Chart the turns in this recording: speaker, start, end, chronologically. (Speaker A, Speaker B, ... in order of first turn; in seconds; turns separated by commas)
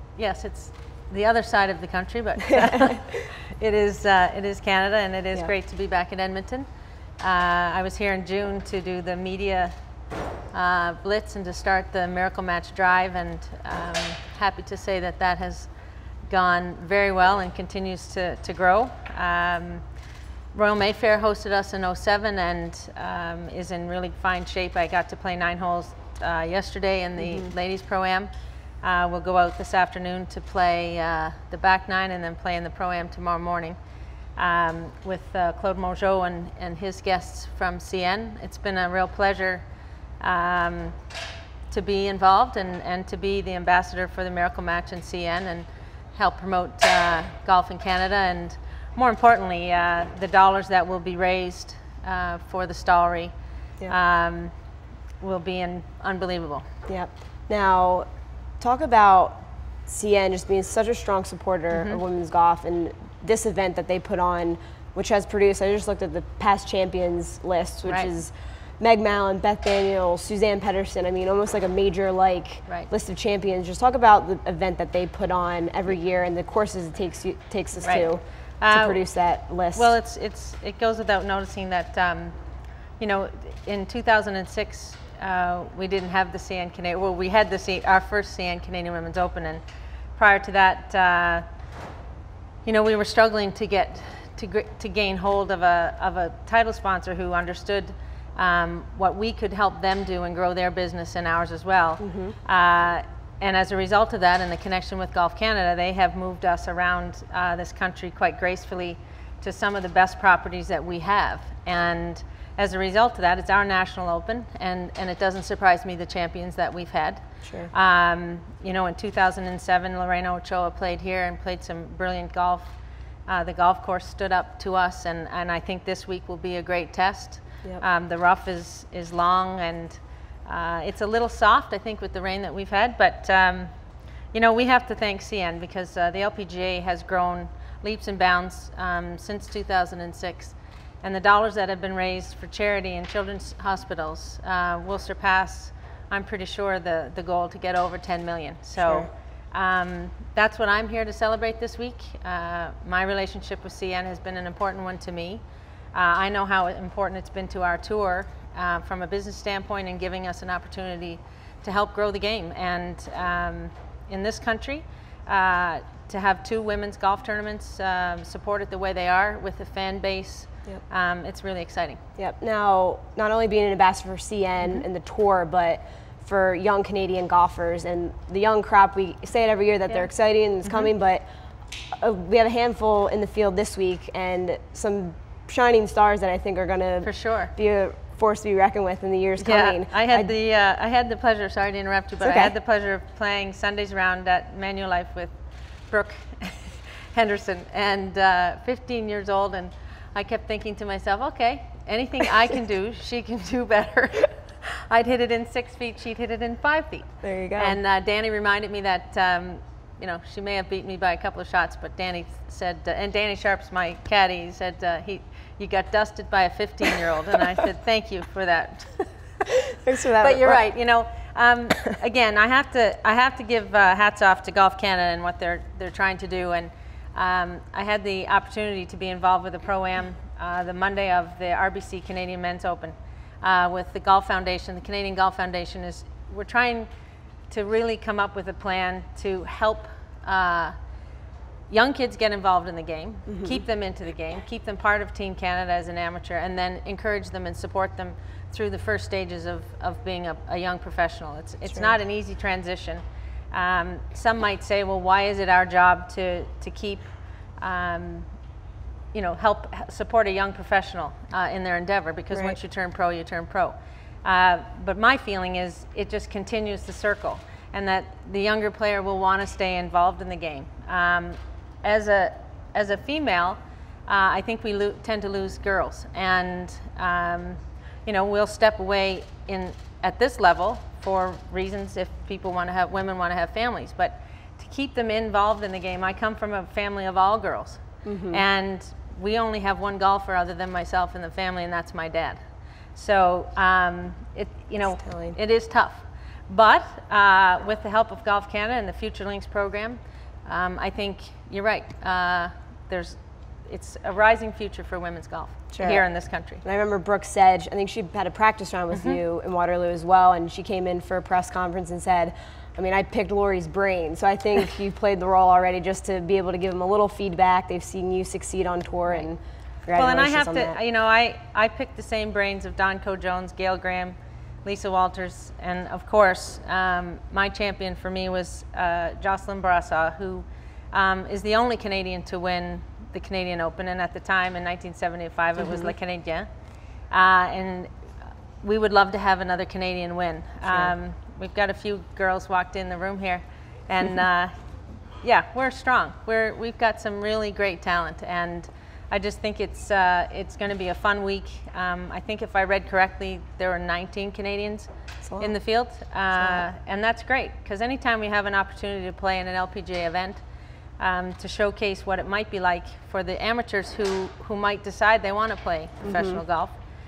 Speaker A: 0.1-6.7, Speaker A: 7.2-9.8, Speaker A: 10.5-15.7, Speaker A: 16.3-19.8, Speaker A: 20.5-28.3, Speaker B: 27.2-27.5, Speaker A: 28.8-33.8, Speaker A: 34.4-39.6, Speaker A: 40.2-41.0, Speaker A: 41.7-53.3, Speaker A: 53.9-54.5, Speaker A: 55.2-56.6, Speaker B: 56.9-58.1, Speaker B: 58.6-79.9, Speaker A: 61.7-62.0, Speaker A: 67.8-68.1, Speaker A: 77.8-82.3, Speaker A: 83.0-89.6, Speaker A: 90.2-91.4, Speaker A: 92.6-133.7, Speaker B: 102.0-102.3, Speaker B: 117.4-117.7, Speaker A: 134.3-172.0, Speaker B: 148.8-149.1, Speaker B: 172.2-181.2, Speaker A: 180.7-180.9, Speaker B: 182.0-190.3, Speaker A: 187.0-187.5, Speaker A: 189.4-195.3, Speaker B: 192.2-192.5, Speaker A: 195.9-219.1, Speaker B: 207.2-207.8, Speaker B: 219.7-220.7, Speaker A: 220.2-236.9, Speaker A: 237.5-240.7, Speaker A: 241.7-258.3, Speaker B: 243.3-243.6, Speaker A: 259.1-292.4, Speaker B: 262.3-262.6, Speaker B: 288.0-288.4, Speaker A: 292.9-306.6, Speaker B: 295.0-295.4, Speaker B: 305.7-320.8, Speaker A: 319.9-336.5, Speaker B: 335.6-335.9, Speaker A: 337.1-337.9, Speaker A: 338.6-344.5, Speaker B: 340.7-340.9, Speaker A: 345.2-360.4, Speaker B: 355.2-355.6, Speaker B: 356.4-356.6, Speaker A: 361.0-366.8, Speaker B: 366.0-366.4